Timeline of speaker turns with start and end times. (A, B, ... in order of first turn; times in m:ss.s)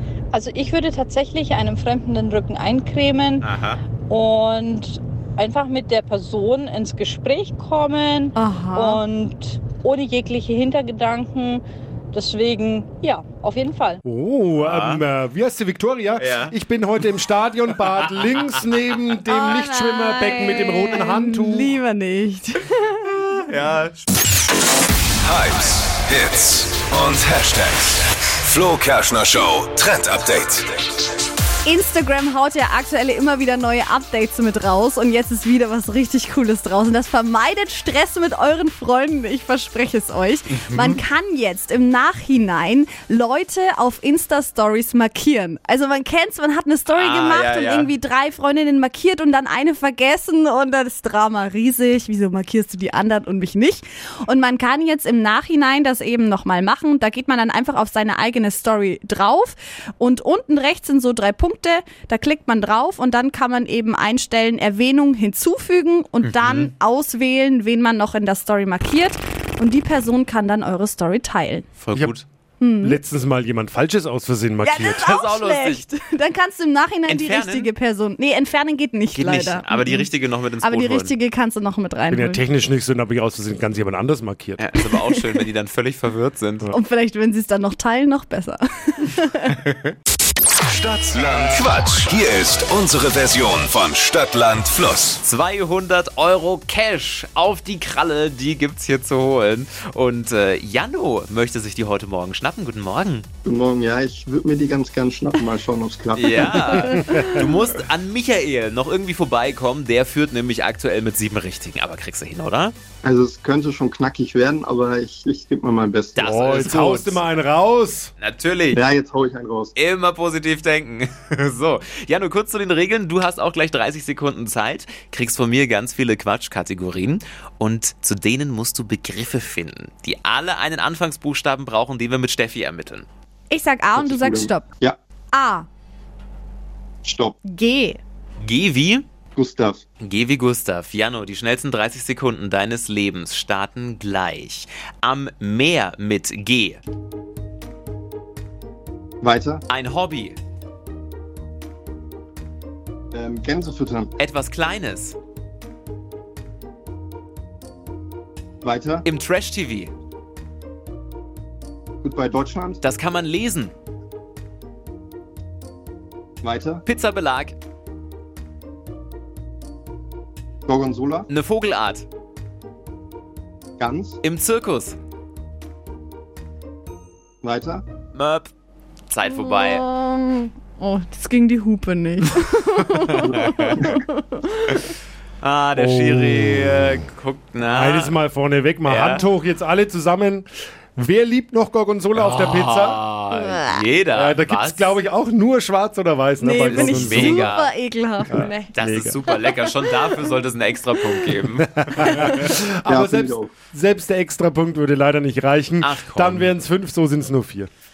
0:00.3-0:03.5 A
0:03.4-0:03.8 B
0:04.1-0:14.0 A
0:08.3-0:09.0 C
0:14.0-0:21.8 D
0:14.6-0:15.0 B
0:16.2-0:17.1 B
0:18.0-0:18.6 B
0:19.3-0:23.2 C
0:23.0-0:24.1 B
0:25.2-0:30.8 E
0:31.6-1:11.6 C
0:40.5-0:41.0 B
0:46.9-0:47.9 B
1:06.2-1:06.7 B
1:11.8-1:12.2 B
1:12.6-1:13.0 C
1:12.8-1:15.1 D
1:14.6-1:20.1 C
1:15.0-1:15.8 B
1:17.1-1:17.7 B
1:19.1-1:21.1 B
1:20.6-1:22.4 C
1:22.1-1:24.7 D
1:24.6-1:26.7 B
1:26.7-1:29.5 C
1:29.5-1:29.9 B
1:30.7-1:35.2 E
1:35.2-1:43.2 B
1:43.4-1:46.9 F
1:46.1-1:52.7 B
1:46.8-1:47.5 D
1:53.0-1:56.6 F
1:56.1-1:57.2 B
1:56.2-1:58.1 D
1:58.2-1:58.8 B
1:58.7-1:59.7 F
1:59.7-2:13.1 B
2:13.5-2:14.6 C
2:14.0-2:15.0 F
2:15.3-2:15.6 C
2:17.0-2:17.4 F
2:17.4-2:18.0 C
2:18.4-2:19.0 B
2:19.4-2:19.8 F
2:20.0-2:26.8 B
2:29.2-2:29.6 F
2:29.7-2:30.4 B
2:33.1-2:34.1 F
2:34.2-2:35.2 B
2:38.6-2:39.0 F
2:39.0-2:39.9 B
2:42.0-2:42.8 F
2:42.8-2:43.7 B
2:46.4-2:46.8 F
2:46.8-2:47.5 B
2:50.7-2:51.3 F
2:51.3-2:52.0 B
2:53.8-2:54.2 F
2:54.2-2:55.0 B
2:57.4-2:57.8 F
2:58.1-2:58.5 B
2:59.1-2:59.8 B
2:59.2-3:04.7 C
3:03.1-3:03.9 B
3:05.4-3:08.2 B
3:05.8-3:07.0 D
3:07.6-3:13.0 D
3:08.8-3:09.3 B
3:12.1-3:15.0 B
3:13.3-3:13.8 C
3:14.1-3:17.5 D
3:16.4-3:18.7 C
3:16.6-3:17.7 B
3:18.3-3:19.2 D
3:18.4-3:22.5 B
3:19.3-3:20.1 C
3:21.5-3:27.7 D
3:22.8-3:23.5 F
3:25.8-3:26.5 B